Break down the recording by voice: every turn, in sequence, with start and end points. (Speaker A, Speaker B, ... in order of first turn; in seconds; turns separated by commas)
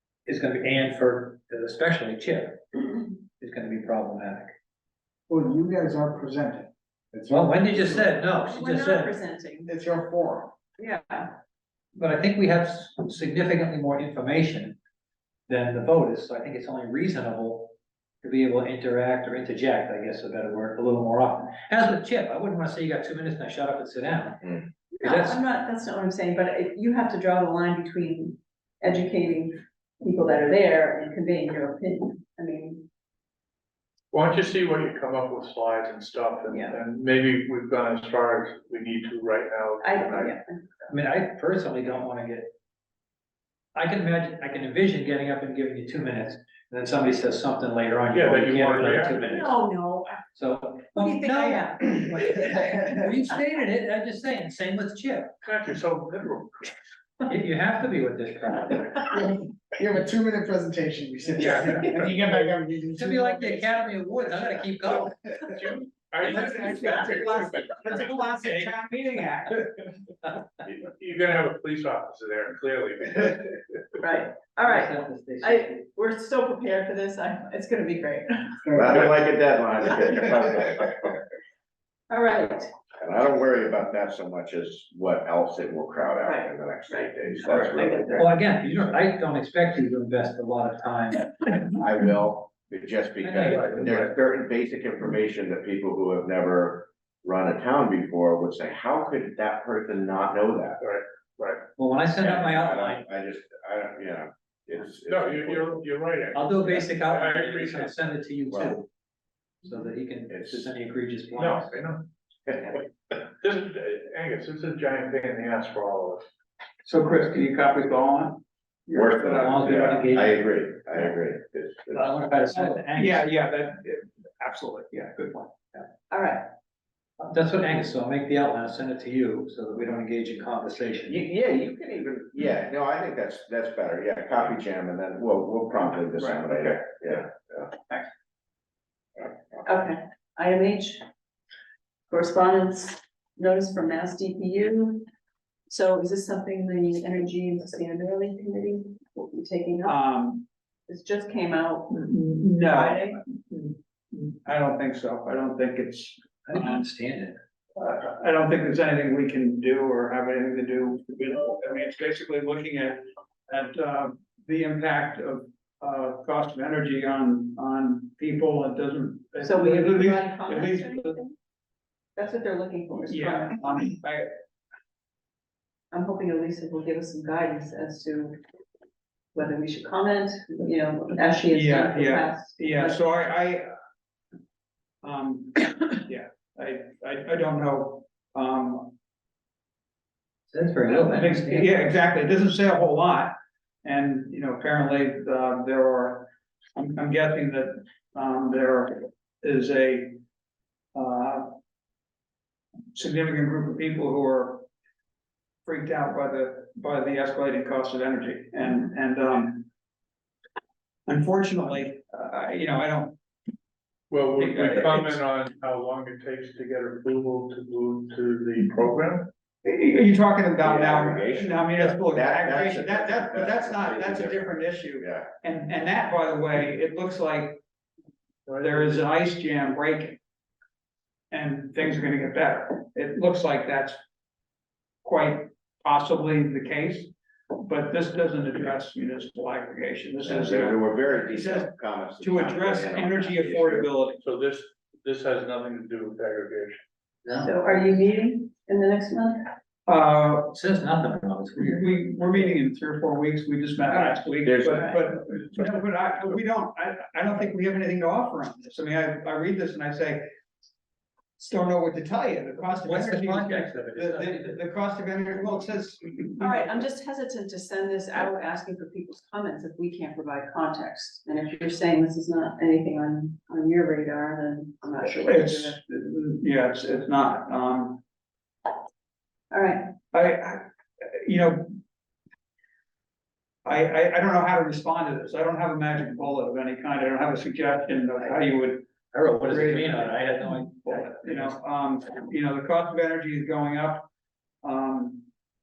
Speaker A: 0.2-4.5, Speaker B: 5.3-8.1, Speaker A: 7.3-9.1, Speaker C: 8.5-9.7, Speaker B: 9.7-10.5, Speaker C: 10.8-11.3, Speaker A: 11.9-14.8, Speaker A: 15.5-25.4, Speaker C: 25.0-32.9, Speaker D: 34.1-40.4, Speaker C: 36.5-36.8, Speaker C: 39.8-40.6, Speaker A: 40.9-42.5, Speaker A: 43.7-49.5, Speaker D: 48.1-49.2, Speaker C: 49.2-50.2, Speaker A: 50.3-55.3, Speaker C: 51.0-52.0, Speaker D: 55.4-56.7, Speaker A: 57.2-59.0, Speaker B: 59.1-64.2, Speaker A: 62.9-65.1, Speaker B: 64.8-65.1, Speaker D: 65.5-67.4, Speaker E: 66.2-69.6, Speaker D: 70.7-73.5, Speaker C: 74.0-78.8, Speaker A: 74.7-75.8, Speaker B: 78.7-79.2, Speaker F: 78.7-81.2, Speaker C: 82.1-82.7, Speaker F: 83.0-88.3, Speaker C: 86.2-88.3, Speaker A: 88.1-91.3, Speaker F: 91.7-100.8, Speaker A: 93.2-94.1, Speaker D: 100.8-101.6, Speaker A: 101.8-103.0, Speaker F: 102.2-105.7, Speaker D: 105.1-107.9, Speaker A: 106.3-108.9, Speaker F: 108.5-108.8, Speaker A: 109.6-111.7, Speaker F: 110.3-110.7, Speaker D: 111.3-112.0, Speaker D: 113.4-116.3, Speaker E: 116.8-120.0, Speaker F: 118.9-122.0, Speaker A: 119.3-120.4, Speaker A: 121.9-123.2, Speaker E: 122.5-125.5, Speaker C: 126.1-126.5, Speaker A: 127.2-131.2, Speaker F: 131.1-137.7, Speaker C: 139.7-141.0, Speaker C: 142.1-145.1, Speaker C: 145.7-150.0, Speaker E: 149.8-150.4, Speaker C: 150.9-151.9, Speaker E: 151.9-156.8, Speaker C: 152.6-153.2, Speaker A: 156.5-157.3, Speaker E: 157.8-171.2, Speaker C: 169.4-171.3, Speaker C: 172.2-173.8, Speaker E: 173.1-174.3, Speaker C: 175.9-178.4, Speaker C: 179.3-183.1, Speaker E: 181.5-183.7, Speaker E: 185.0-188.9, Speaker A: 190.5-191.9, Speaker E: 190.9-200.2, Speaker E: 200.9-201.6, Speaker E: 202.9-204.7, Speaker E: 205.7-209.7, Speaker E: 211.1-213.2, Speaker D: 214.1-219.3, Speaker E: 214.4-215.2, Speaker E: 219.6-227.6, Speaker F: 220.6-225.3, Speaker D: 228.5-229.0, Speaker E: 228.6-230.2, Speaker E: 231.3-234.0, Speaker E: 235.0-241.7, Speaker F: 240.2-243.9, Speaker E: 242.2-244.2, Speaker D: 244.2-246.8, Speaker A: 247.2-247.5, Speaker C: 247.3-249.5, Speaker E: 249.8-250.5, Speaker A: 250.5-252.0, Speaker E: 251.6-260.3, Speaker F: 254.4-254.8, Speaker C: 254.7-255.1, Speaker E: 261.4-266.7, Speaker A: 262.7-264.6, Speaker C: 266.4-275.8, Speaker E: 275.2-278.0, Speaker C: 279.5-279.9, Speaker E: 280.1-281.8, Speaker E: 283.6-288.9, Speaker A: 289.1-291.6, Speaker E: 289.4-294.1, Speaker E: 294.6-295.3